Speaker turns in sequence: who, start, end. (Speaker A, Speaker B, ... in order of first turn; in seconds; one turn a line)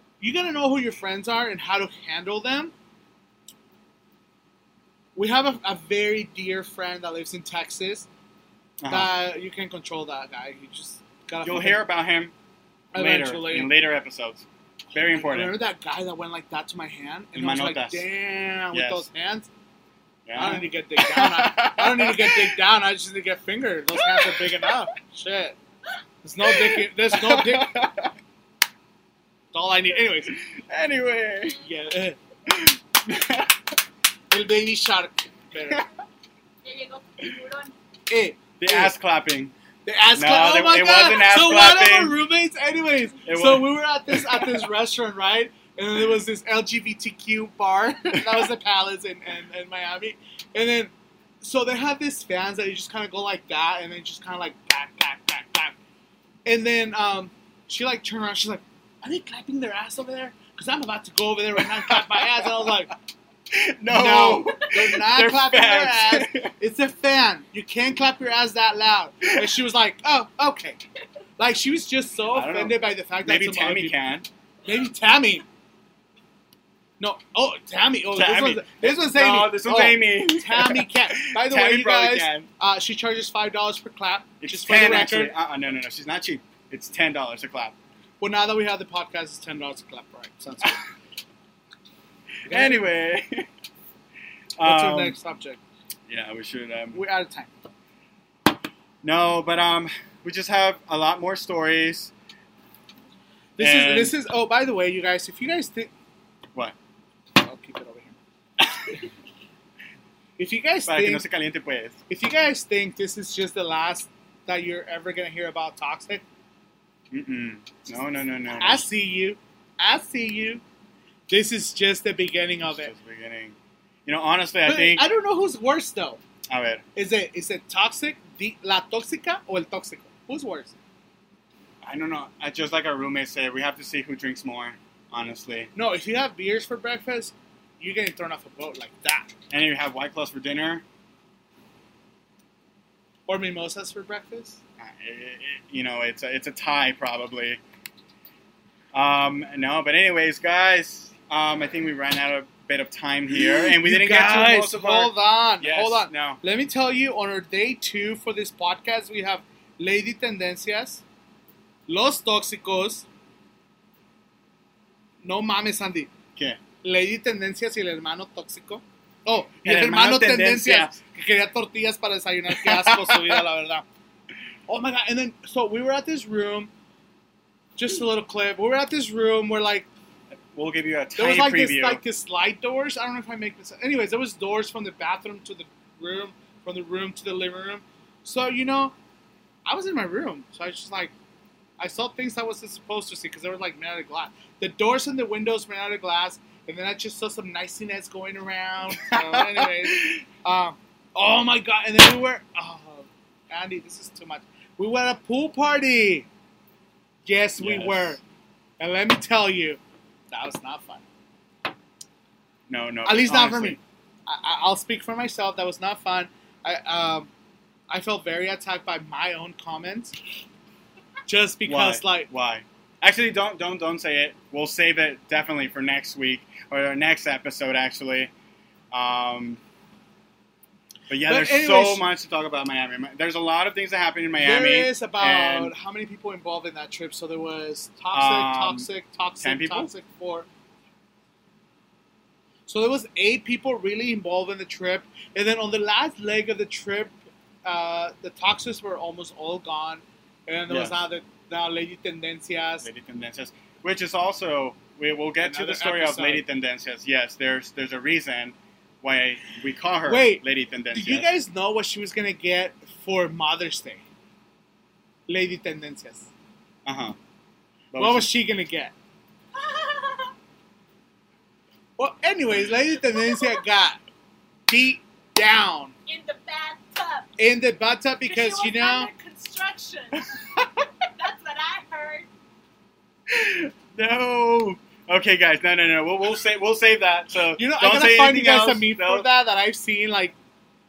Speaker A: 0.2-2.7
Speaker A: 5.2-8.1
Speaker B: 8.8-9.1
Speaker A: 8.9-11.8
Speaker B: 11.4-12.3
Speaker A: 12.9-13.7
Speaker B: 12.9-15.6
Speaker A: 15.0-19.5
Speaker B: 17.4-18.1
Speaker B: 18.7-19.1
Speaker B: 20.3-22.6
Speaker A: 20.4-25.6
Speaker B: 24.0-24.6
Speaker A: 26.2-27.8
Speaker B: 26.5-28.1
Speaker A: 29.5-30.4
Speaker B: 30.3-31.6
Speaker A: 31.6-32.2
Speaker B: 32.5-33.6
Speaker A: 34.3-35.9
Speaker C: 36.6-37.7
Speaker A: 38.1-38.9
Speaker B: 38.6-39.5
Speaker A: 39.9-55.8
Speaker B: 40.1-42.2
Speaker B: 43.2-44.7
Speaker B: 48.1-48.4
Speaker A: 56.5-62.9
Speaker B: 61.6-62.8
Speaker B: 63.5-66.5
Speaker A: 63.9-70.8
Speaker A: 71.4-74.0
Speaker B: 72.3-74.3
Speaker A: 74.7-75.5
Speaker A: 77.0-85.3
Speaker B: 78.1-82.5
Speaker B: 84.4-87.8
Speaker A: 88.2-90.8
Speaker B: 92.5-93.5
Speaker A: 92.5-92.8
Speaker B: 94.6-95.2
Speaker A: 94.6-95.6
Speaker B: 96.1-97.0
Speaker A: 96.9-97.5
Speaker B: 99.0-102.1
Speaker A: 103.6-105.9
Speaker B: 103.6-104.2
Speaker A: 107.3-108.2
Speaker B: 108.6-109.0
Speaker A: 110.4-111.2
Speaker B: 110.9-112.0
Speaker A: 112.1-116.2
Speaker B: 117.1-118.9
Speaker A: 118.5-120.6
Speaker A: 121.3-122.9
Speaker B: 122.7-125.1
Speaker A: 124.7-126.2
Speaker B: 126.5-126.8
Speaker A: 127.0-130.8
Speaker B: 131.8-135.7
Speaker A: 135.8-139.3
Speaker B: 139.5-140.8
Speaker A: 143.3-144.6
Speaker B: 144.8-147.6
Speaker B: 148.9-156.4
Speaker A: 153.3-161.0
Speaker A: 161.9-163.1
Speaker A: 165.2-166.1
Speaker A: 166.8-173.9
Speaker B: 169.6-171.0
Speaker B: 172.7-173.4
Speaker A: 174.7-176.7
Speaker A: 177.8-179.9
Speaker B: 180.3-182.0
Speaker A: 181.2-188.9
Speaker A: 189.7-191.1
Speaker A: 191.8-206.3
Speaker B: 198.9-200.2
Speaker A: 207.3-208.2
Speaker B: 207.6-208.2
Speaker A: 208.8-209.8
Speaker A: 210.3-211.1
Speaker B: 212.7-213.8
Speaker A: 213.1-217.3
Speaker A: 217.9-220.2
Speaker A: 221.3-222.3
Speaker B: 221.7-228.3
Speaker B: 228.9-229.6
Speaker B: 231.1-235.7
Speaker A: 231.2-232.1
Speaker A: 234.4-240.5
Speaker B: 238.1-238.9
Speaker B: 239.4-239.9
Speaker A: 242.7-252.9
Speaker B: 250.7-251.0
Speaker B: 252.8-261.3
Speaker A: 255.4-256.4
Speaker A: 260.1-260.4
Speaker A: 260.9-264.0
Speaker A: 265.3-266.3
Speaker B: 266.9-267.2
Speaker B: 267.9-268.3
Speaker A: 268.0-268.9
Speaker C: 269.6-270.3
Speaker A: 272.0-274.0
Speaker C: 273.1-273.6
Speaker A: 274.7-275.9
Speaker C: 276.1-277.3
Speaker A: 277.4-279.1
Speaker C: 278.2-282.3
Speaker B: 283.3-289.3
Speaker A: 287.6-290.4